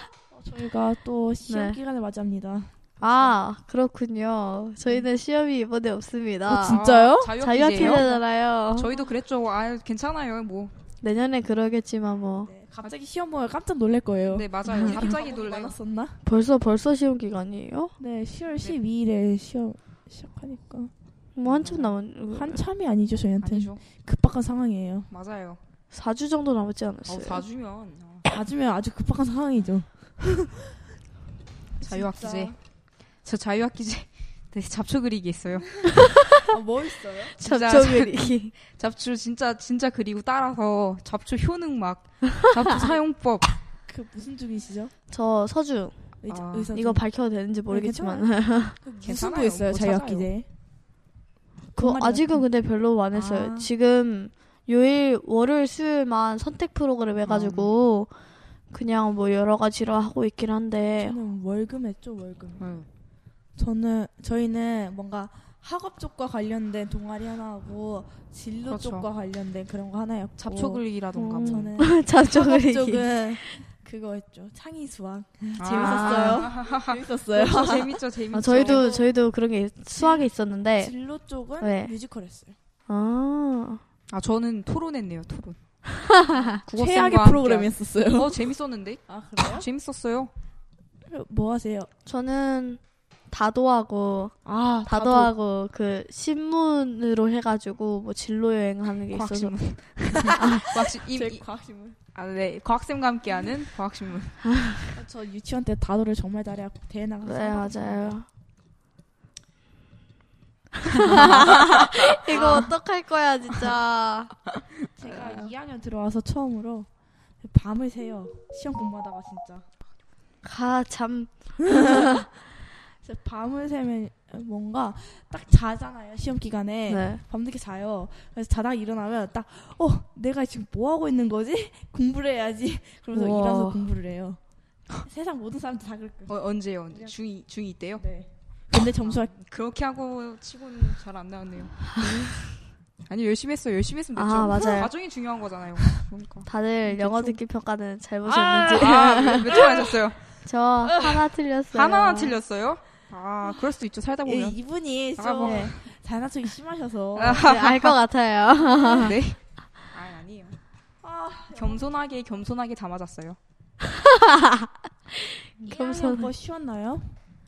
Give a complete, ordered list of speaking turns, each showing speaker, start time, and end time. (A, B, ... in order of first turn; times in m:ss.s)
0:00.3-0:03.4 A
0:01.5-0:01.8 B
0:03.0-0:08.9 B
0:06.4-0:08.2 A
0:06.7-0:10.7 C
0:11.0-0:12.5 B
0:12.4-0:16.2 A
0:14.3-0:15.8 C
0:16.2-0:17.9 B
0:18.0-0:20.9 A
0:21.4-0:22.6 B
0:21.4-0:21.9 C
0:22.3-0:25.1 A
0:23.4-0:23.8 C
0:25.1-0:25.6 C
0:25.9-0:27.4 B
0:27.1-0:28.3 C
0:28.2-0:30.8 A
0:31.8-0:32.6 A
0:31.8-0:32.6 C
0:33.2-0:36.0 C
0:36.1-0:36.4 B
0:36.4-0:37.4 A
0:37.4-0:38.5 B
0:37.4-0:43.6 C
0:43.9-0:44.9 A
0:45.1-0:46.0 B
0:46.2-0:47.0 A
0:46.3-0:46.7 C
0:46.7-0:48.8 B
0:47.7-0:50.5 A
0:49.0-0:50.3 C
0:51.7-0:58.1 B
0:51.8-0:52.4 A
0:53.1-0:53.7 A
0:57.2-0:57.7 C
0:58.7-1:01.1 B
1:01.0-1:02.7 A
1:02.6-1:02.9 C
1:03.6-1:10.8 A
1:08.7-1:09.1 C
1:10.4-1:11.7 C
1:11.2-1:13.6 B
1:11.4-1:19.1 A
1:15.6-1:18.9 C
1:15.7-1:16.4 B
1:18.3-1:20.9 B
1:20.0-1:20.2 A
1:20.8-1:22.5 A
1:21.6-1:21.9 B
1:22.9-1:23.8 B
1:24.1-1:25.6 C
1:26.1-1:26.6 B
1:26.4-1:30.3 C
1:26.7-1:28.4 A
1:29.1-1:29.7 A
1:31.0-1:31.9 A
1:32.0-1:34.3 B
1:34.4-1:35.3 A
1:34.8-1:39.5 B
1:39.1-1:41.4 C
1:40.1-1:42.0 A
1:40.4-1:40.6 B
1:42.1-1:44.5 C
1:44.9-1:48.2 A
1:47.2-1:48.3 B
1:50.8-1:54.4 B
1:51.0-1:52.7 C
1:51.2-1:51.5 A
1:52.4-1:52.6 A
1:55.0-1:56.9 A
1:57.4-1:59.6 A
2:00.4-2:02.2 B
2:01.7-2:02.2 A
2:03.0-2:14.4 A
2:06.9-2:07.2 B
2:13.1-2:13.9 B
2:15.0-2:16.3 A
2:16.3-2:18.0 C
2:18.0-2:19.3 A
2:19.0-2:22.4 C
2:23.0-2:27.3 C
2:24.2-2:24.9 B
2:26.4-2:29.6 B
2:28.3-2:30.3 C
2:30.4-2:32.3 B
2:31.7-2:34.6 C
2:34.2-2:37.6 A
2:35.2-2:35.8 C
2:37.1-2:38.0 C
2:37.4-2:39.1 B
2:38.9-2:39.4 C
2:39.9-2:40.6 C
2:41.0-2:41.8 A
2:41.5-2:43.4 C
2:43.9-2:46.3 B
2:45.6-2:47.1 A